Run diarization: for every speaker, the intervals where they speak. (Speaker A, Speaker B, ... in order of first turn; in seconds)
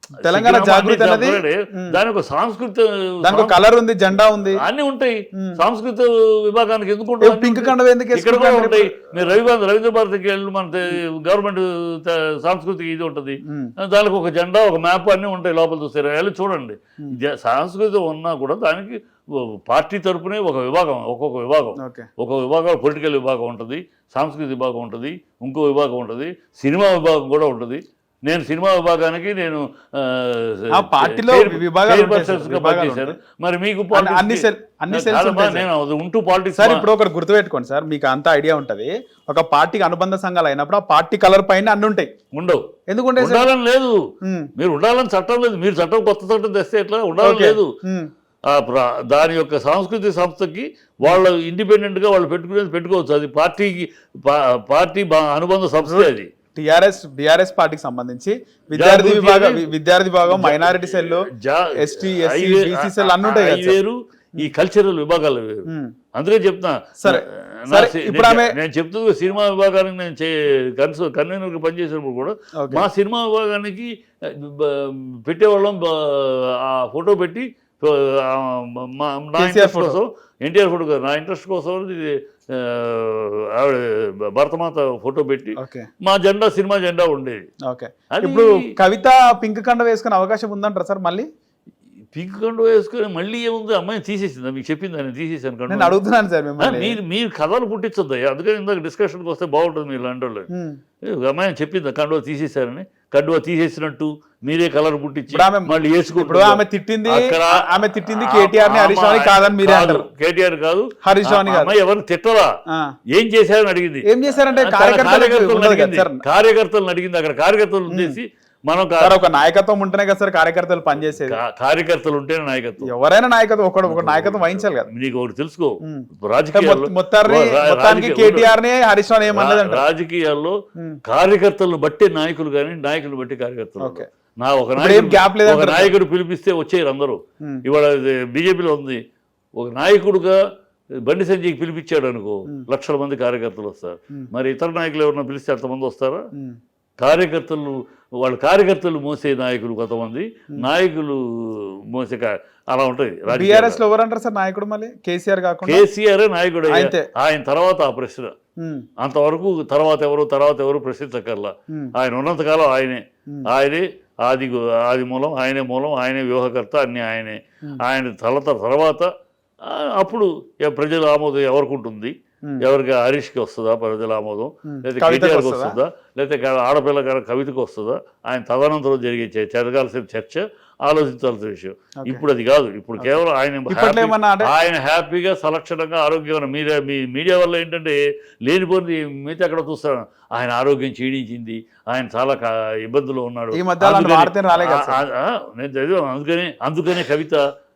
Speaker A: 0.2-2.0, 3.2-4.6, 7.2-9.2, 13.4-13.7, 21.8-22.1, 30.7-33.2, 33.9-35.6, 36.5-42.1, 42.9-43.5, 44.2-44.5, 47.2-48.1, 55.8-61.3, 61.8-63.8, 65.7-65.9, 67.0-68.5, 72.6-72.8, 79.4-80.0, 85.6-85.9, 87.7-91.3, 95.7-97.0, 100.5-100.8, 105.3-110.1, 111.0-111.7, 114.0-116.2, 117.9-118.2, 119.0-121.4, 122.8-124.9, 125.8-129.8, 133.8-134.1, 134.8-136.0, 153.3-155.8, 156.7-157.1, 158.6-158.8, 174.7-175.7, 183.0-184.5, 193.5-195.0
Speaker B: 0.2-3.6, 4.5-36.8, 42.3-42.6, 43.2-44.0, 44.6-47.7, 48.5-56.3, 58.7-59.7, 60.2-87.4, 88.1-88.7, 92.1-96.0, 96.6-100.5, 101.0-112.5, 113.1-119.2, 121.3-122.9, 123.8-128.5, 129.3-139.0, 139.6-140.4, 140.9-146.2, 147.0-153.8, 155.6-158.3, 159.0-169.1, 169.6-197.4